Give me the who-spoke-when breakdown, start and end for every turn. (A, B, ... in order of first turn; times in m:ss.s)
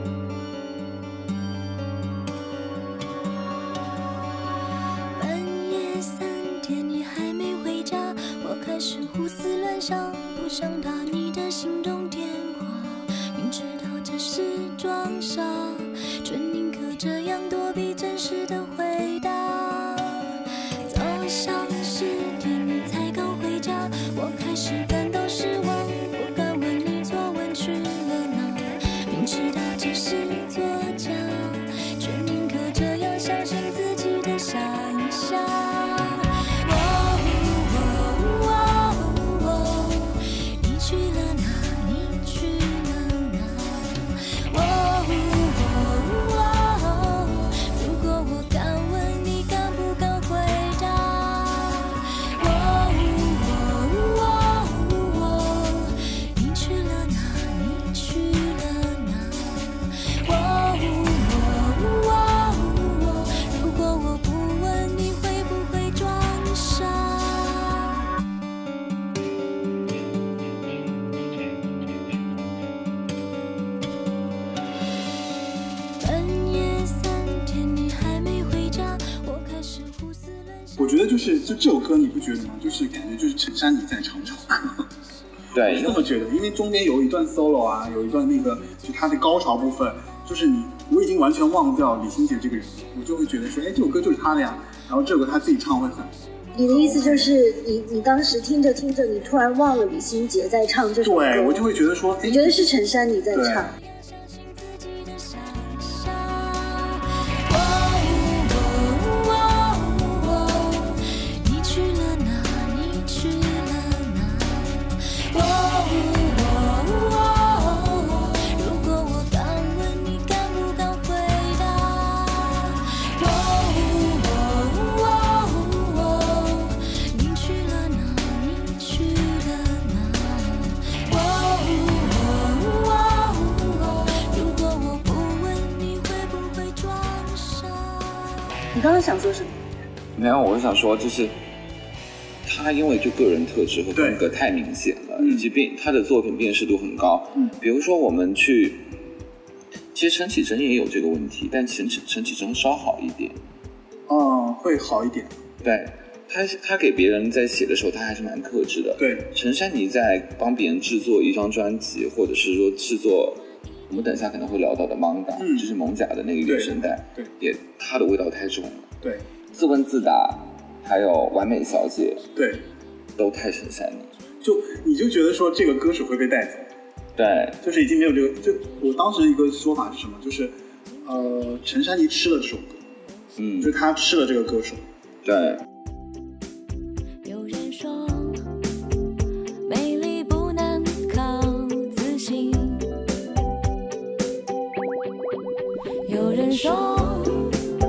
0:05.2-1:08.0 A
1:16.0-1:21.4 A
1:20.8-1:24.9 B
1:25.5-1:26.0 C
1:25.5-1:37.3 B
1:36.5-1:41.6 D
1:41.0-1:42.7 B
1:42.2-1:43.8 D
1:43.3-1:43.8 B
1:43.8-2:18.4 A
2:18.7-2:19.5 D
2:20.2-2:21.4 C
2:22.4-2:29.0 C
2:24.0-2:24.2 B
2:25.2-2:25.5 B
2:29.9-2:33.4 C
2:34.1-2:35.4 B
2:35.6-2:48.9 C
2:39.0-2:39.3 B
2:45.4-2:45.7 B
2:46.4-2:47.3 B
2:49.5-2:52.2 C
2:52.4-2:52.7 B
2:53.2-2:54.1 C
2:54.4-2:56.7 B
2:57.2-2:57.6 C
2:57.6-3:02.8 B
3:03.4-3:03.8 C
3:03.6-3:04.8 B
3:05.2-3:05.6 C
3:07.2-3:08.4 A
3:09.6-3:12.9 A
3:16.0-3:17.7 A